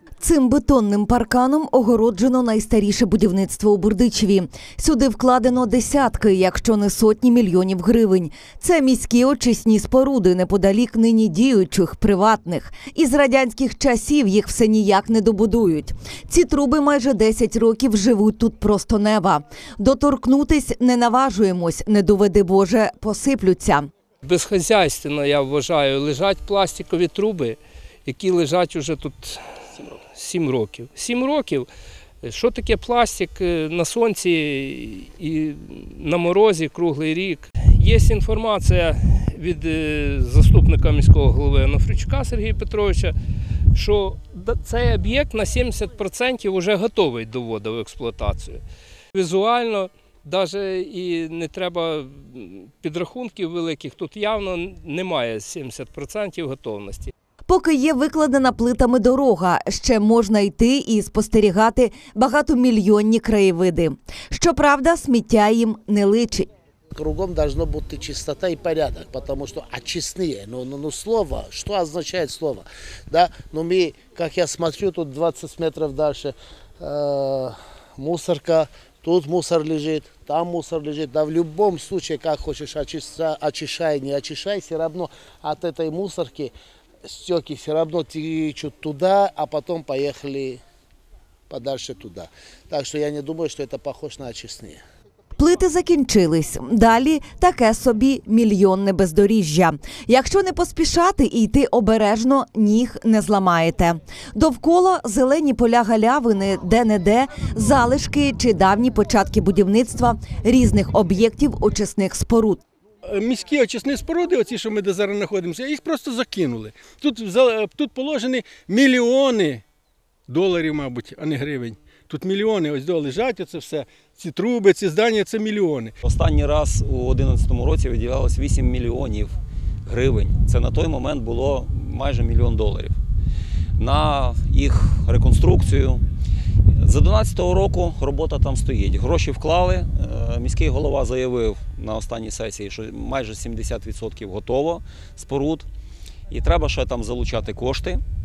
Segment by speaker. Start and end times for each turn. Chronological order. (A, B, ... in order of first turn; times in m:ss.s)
0:00.2-0:23.9 A
0:24.2-0:31.7 B
0:32.2-0:43.2 B
0:43.7-0:48.6 B
0:49.1-0:57.1 B
0:57.5-1:06.5 A
1:06.9-1:26.5 C
1:27.0-1:30.6 C
1:31.5-1:34.8 C
1:35.4-1:52.6 A
1:53.1-1:59.6 D
2:00.3-2:05.9 D
2:06.0-2:13.0 E
2:13.8-2:16.0 E
2:16.8-2:25.7 E
2:26.3-2:28.0 E